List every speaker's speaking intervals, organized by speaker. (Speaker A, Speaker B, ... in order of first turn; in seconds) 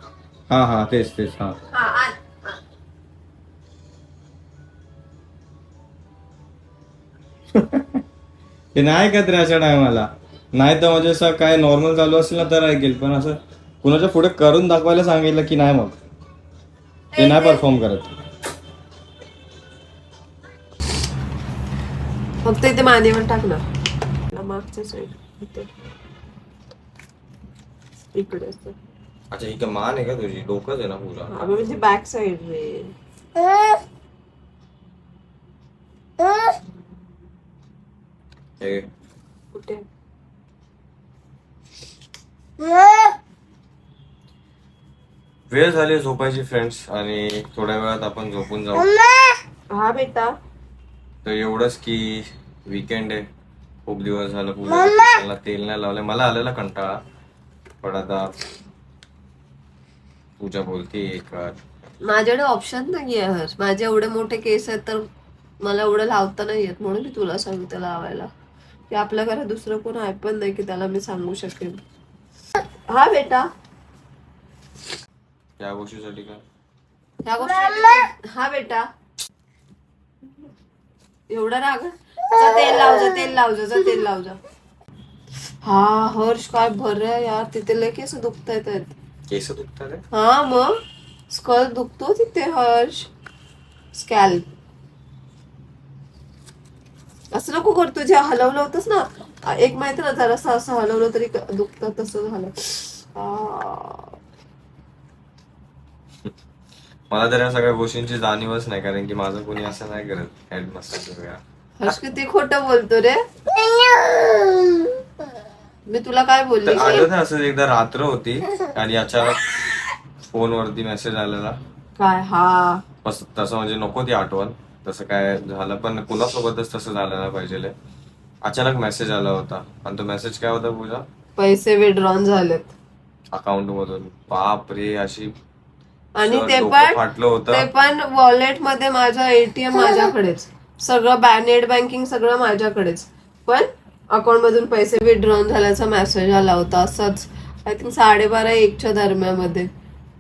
Speaker A: 0.5-1.6, 7.5-8.0, 8.8-16.0, 17.2-18.1, 29.3-31.8, 38.6-38.9, 45.5-48.9, 51.2-53.2, 53.9-57.0, 57.8-58.4, 60.4-61.6, 75.6-76.4, 89.3-90.0, 107.1-111.4, 116.7-119.6, 120.3-121.6, 123.0-127.7, 128.4-131.1, 133.3-135.3, 136.2-137.7
Speaker B: 1.7-2.5, 17.1-17.6, 22.4-23.6, 24.3-25.7, 28.1-28.8, 31.3-32.9, 39.5-39.8, 49.7-50.4, 62.0-65.1, 65.6-68.3, 68.9-71.8, 72.9-73.5, 77.2-78.9, 81.3-84.4, 85.6-89.0, 90.1-90.8, 91.3-93.1, 93.9-94.5, 97.3-104.2, 111.8-113.2, 115.9-117.1, 122.0-122.8, 131.4-132.7, 136.2-149.7